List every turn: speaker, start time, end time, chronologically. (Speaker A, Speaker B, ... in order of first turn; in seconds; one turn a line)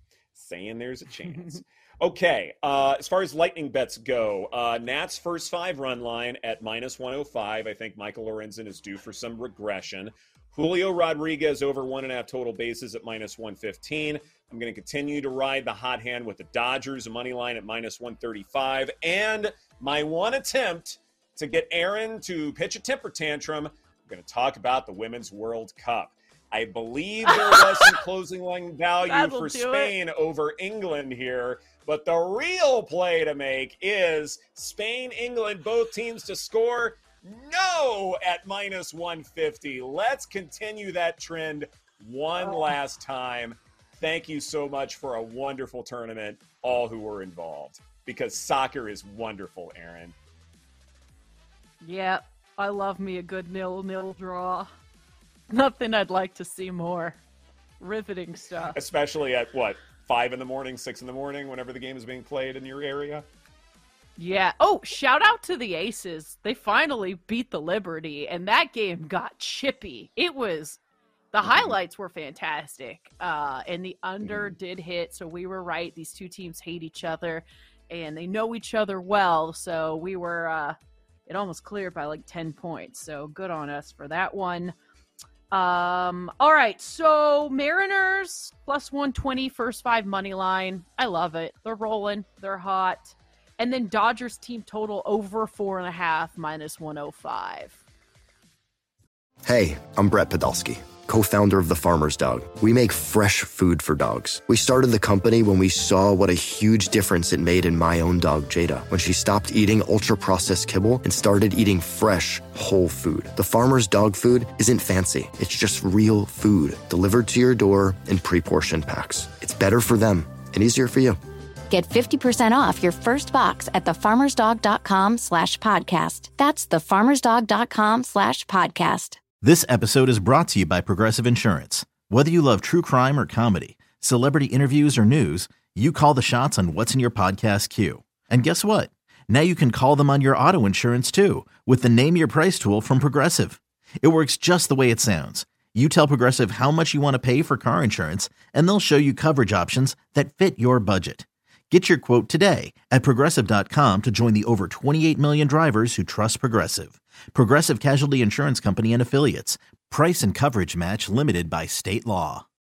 Speaker A: 0.3-50.1
Speaker B: 27.3-27.9
Speaker B: 29.0-29.9
Speaker B: 42.4-42.7
Speaker B: 51.8-54.7
Speaker B: 55.5-57.2
Speaker B: 57.8-58.8
Speaker A: 58.7-63.2
Speaker B: 64.2-70.8
Speaker B: 71.3-84.7
Speaker A: 71.4-71.7
Speaker A: 74.2-74.5
Speaker B: 85.5-97.8
Speaker C: 99.4-121.2
Speaker D: 121.7-129.2
Speaker E: 129.4-162.4